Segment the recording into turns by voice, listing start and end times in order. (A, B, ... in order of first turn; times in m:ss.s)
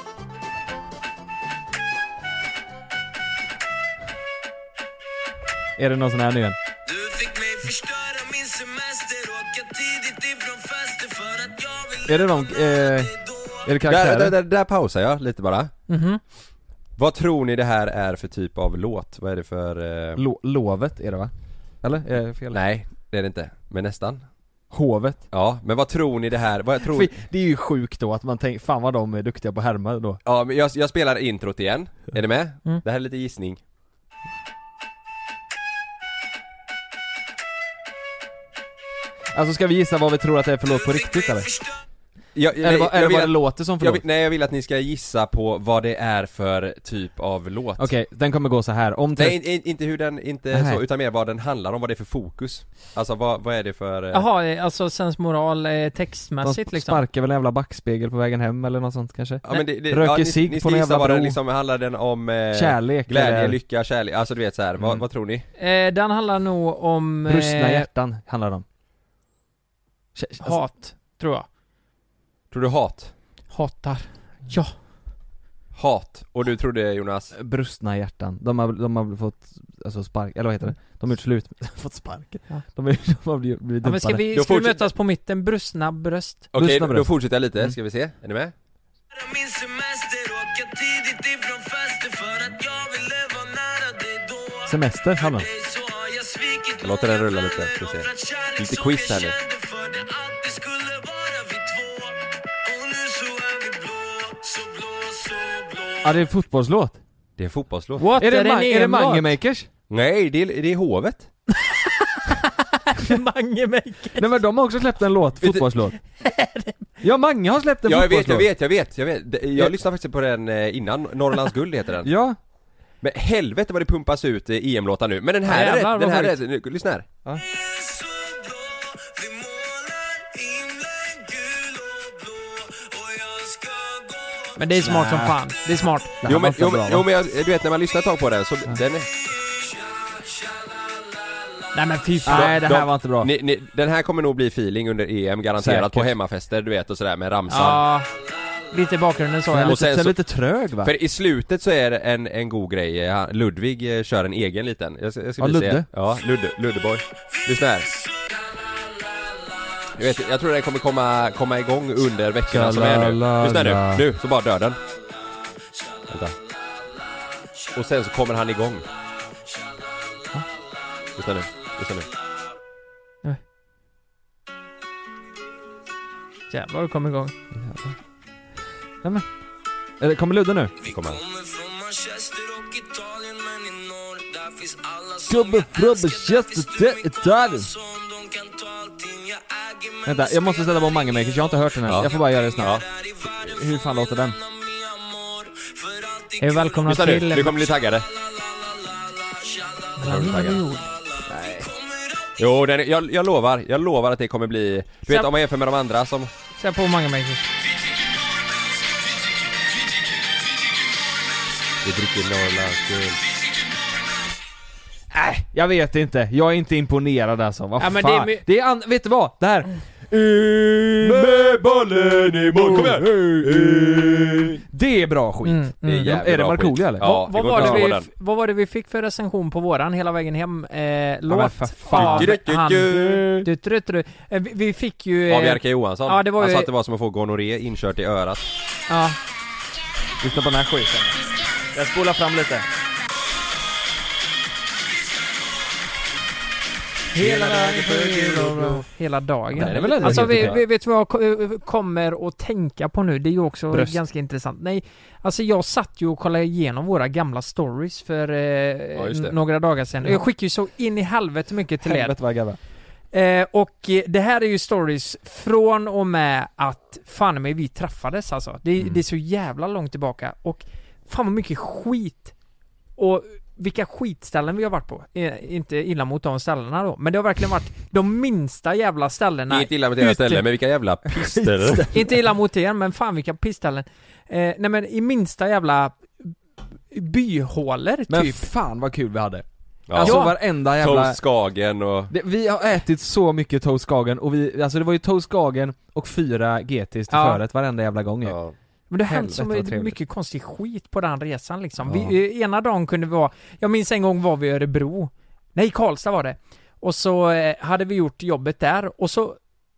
0:05.8-0:06.6 A
0:06.8-0:13.7 B
0:12.0-0:14.3 A
0:13.8-0:15.7 C
0:15.9-0:16.2 D
0:17.0-0:20.2 C
0:20.1-0:22.6 A
0:22.5-0:24.3 C
0:24.7-0:25.2 A
0:25.3-0:27.1 C
0:26.8-0:30.2 A
0:30.2-0:33.6 C
0:39.3-0:41.5 A
0:40.7-0:41.8 B
0:42.3-0:47.9 C
0:42.6-0:44.0 A
0:47.8-0:49.4 A
0:49.2-0:54.2 C
0:50.5-0:50.8 A
0:54.1-0:57.0 D
0:56.4-1:01.4 A
0:59.4-1:05.4 C
1:02.5-1:03.6 A
1:04.8-1:05.0 A
1:05.6-1:07.9 D
1:07.2-1:08.6 A
1:10.1-1:10.6 A
1:10.4-1:11.4 D
1:12.5-1:13.1 C
1:13.5-1:14.7 D
1:15.7-1:17.3 C
1:17.3-1:24.2 A
1:23.8-1:26.5 D
1:24.3-1:24.9 C
1:26.5-1:27.7 A
1:26.5-1:28.5 C
1:29.1-1:46.1 B
1:34.6-1:35.5 A
1:36.8-1:39.3 C
1:46.0-1:47.0 A
1:47.4-1:48.1 C
1:48.0-1:49.3 D
1:48.1-1:49.7 A
1:49.9-1:51.3 C
1:51.7-1:54.4 D
1:54.2-1:56.0 A
1:56.2-1:56.9 D
1:57.0-1:58.5 A
1:57.8-2:02.1 C
2:02.0-2:02.4 A
2:03.0-2:07.1 C
2:05.4-2:06.3 D
2:07.4-2:14.6 B
2:14.6-2:16.2 D
2:14.8-2:15.4 A
2:16.2-2:17.0 A
2:16.2-2:19.1 C
2:19.5-2:21.5 B
2:21.7-2:22.5 D
2:22.2-2:23.3 A
2:22.3-2:27.8 C
2:25.6-2:26.1 A
2:27.5-2:28.1 D
2:28.7-2:29.8 D
2:29.5-2:30.9 A
2:29.6-2:30.2 C
2:30.8-2:37.9 C
2:35.4-2:35.9 A
2:39.9-2:44.8 C
2:42.5-2:44.1 A
2:46.1-2:46.3 C
2:47.7-2:48.8 C
2:51.2-2:52.1 C
2:56.5-2:57.3 D
2:57.5-2:58.0 A
3:00.0-3:00.7 A
3:00.8-3:17.0 B
3:00.8-3:01.2 C
3:05.3-3:07.7 A
3:10.0-3:14.4 A
3:11.8-3:12.8 C
3:16.4-3:17.6 D
3:16.9-3:18.0 C
3:17.6-3:20.4 B
3:20.0-3:20.9 D
3:20.0-3:20.6 C
3:21.0-3:22.4 B
3:21.3-3:21.7 A
3:22.4-3:26.3 C
3:26.6-3:27.5 D
3:28.4-3:29.0 B
3:31.8-3:33.2 C
3:35.1-3:47.9 A
3:37.8-3:38.4 D
3:41.0-3:44.4 C
3:45.4-3:46.0 D
3:45.8-3:48.1 C
3:47.0-3:56.7 D
3:51.3-3:52.4 A
3:51.9-3:53.4 C
3:55.3-3:58.4 C
3:58.9-3:59.2 D
4:00.2-4:02.7 A
4:07.1-4:22.4 D
4:07.2-4:08.0 A
4:07.2-4:08.8 C
4:09.5-4:10.6 A
4:09.6-4:10.6 C
4:13.7-4:14.0 A
4:18.9-4:19.4 C
4:21.8-4:22.6 A
4:23.1-4:32.3 D
4:33.0-4:40.4 D
4:39.5-4:41.9 C
4:41.1-4:42.2 A
4:41.9-4:46.3 D
4:46.9-4:48.5 D
4:48.1-4:51.2 A
4:49.9-4:52.1 C
4:50.0-4:50.3 D
4:52.1-4:58.4 A
4:57.1-4:57.4 D
4:58.2-4:58.5 C
4:58.9-5:09.4 D
4:59.0-5:00.0 A